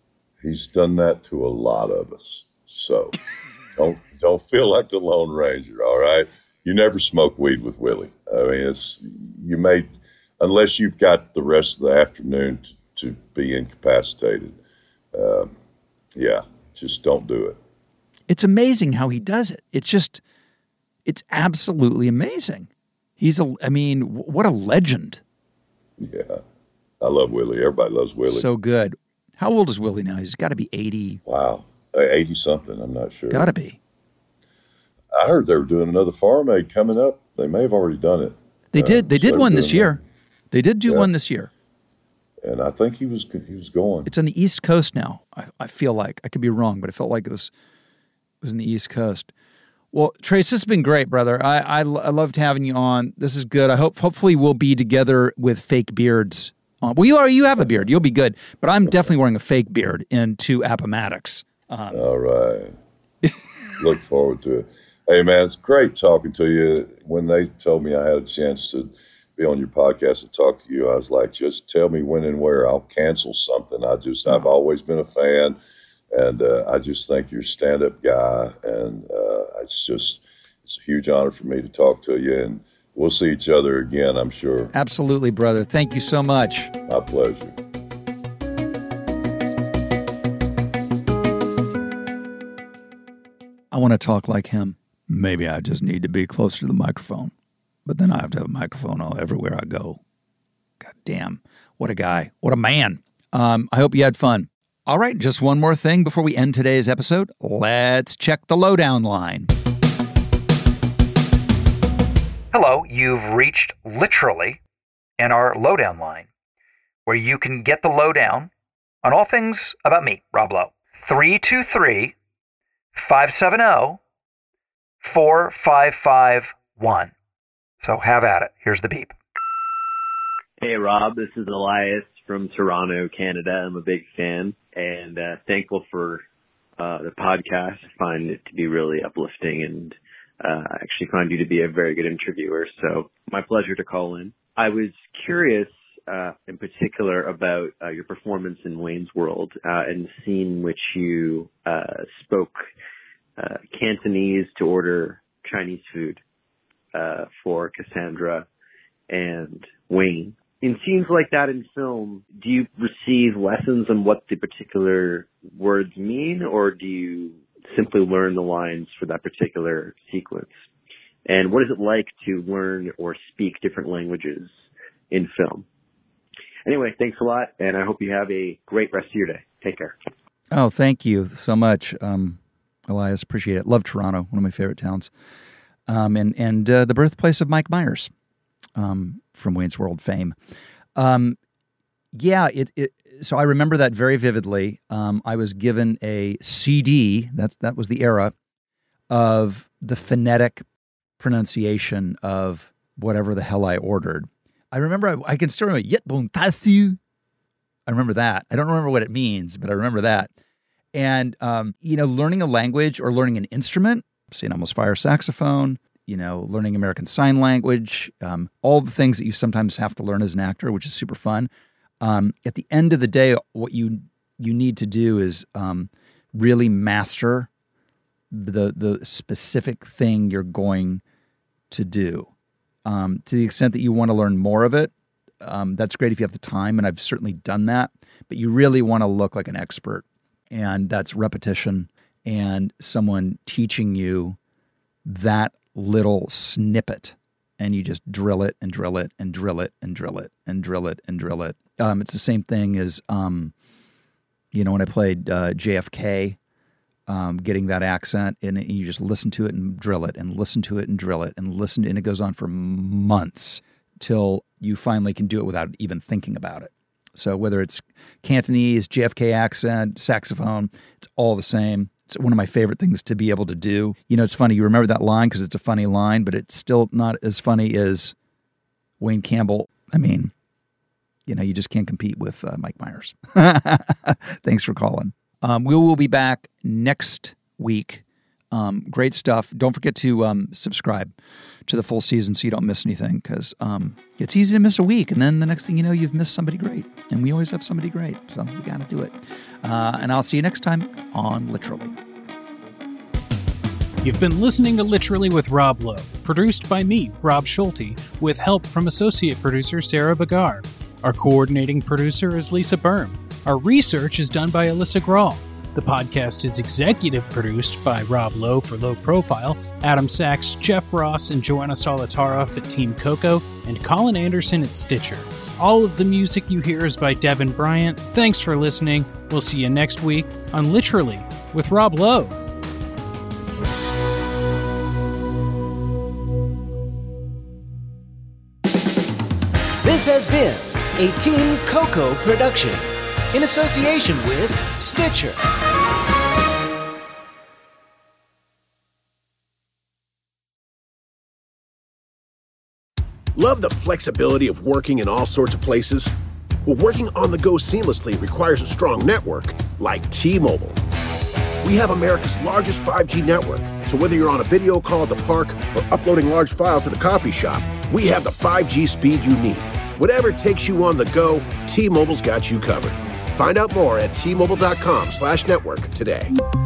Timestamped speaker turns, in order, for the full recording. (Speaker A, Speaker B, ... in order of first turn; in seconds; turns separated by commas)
Speaker A: 0.4-3.1, Speaker A: 3.8-9.9, Speaker A: 10.4-14.6, Speaker A: 15.1-15.5, Speaker A: 16.1-17.6, Speaker B: 18.3-20.2, Speaker B: 21.1-25.2, Speaker A: 26.0-26.4, Speaker A: 27.0-28.5, Speaker B: 28.2-31.2, Speaker A: 31.2-33.5, Speaker B: 33.3-33.8, Speaker A: 35.1-40.0, Speaker B: 38.7-40.0, Speaker B: 40.5-41.5, Speaker A: 42.4-44.1, Speaker B: 44.0-47.5, Speaker B: 48.4-49.3, Speaker B: 49.9-62.0, Speaker A: 57.6-57.8, Speaker A: 61.9-62.7, Speaker A: 63.8-75.6, Speaker A: 76.1-84.7, Speaker B: 84.7-86.7, Speaker A: 86.9-87.6, Speaker B: 93.7-97.3, Speaker B: 97.8-100.0, Speaker B: 100.8-109.5, Speaker B: 112.5-114.6, Speaker B: 115.2-116.3, Speaker B: 117.0-118.5, Speaker B: 119.0-122.1, Speaker B: 122.9-124.0, Speaker B: 125.0-127.1, Speaker B: 127.8-129.1, Speaker C: 130.6-136.2, Speaker C: 136.8-152.6, Speaker C: 153.4-156.2, Speaker C: 156.9-158.4, Speaker C: 159.1-170.5, Speaker C: 171.2-174.5, Speaker C: 175.1-175.7, Speaker C: 176.7-179.9, Speaker B: 180.5-185.1, Speaker B: 185.9-188.1, Speaker B: 188.8-190.3, Speaker B: 190.9-191.4, Speaker B: 192.1-198.3, Speaker B: 199.1-200.6, Speaker B: 201.2-207.0, Speaker B: 207.9-210.3, Speaker B: 210.9-221.5, Speaker B: 222.0-227.5, Speaker B: 228.3-231.0, Speaker B: 231.7-232.3, Speaker B: 232.8-244.4, Speaker B: 245.1-253.5, Speaker B: 254.5-256.4, Speaker B: 257.1-278.1, Speaker B: 279.0-280.3, Speaker B: 281.3-291.1, Speaker B: 291.7-301.9, Speaker D: 304.0-332.4, Speaker E: 339.8-345.4, Speaker F: 353.3-356.1, Speaker F: 356.6-360.8, Speaker F: 361.6-376.3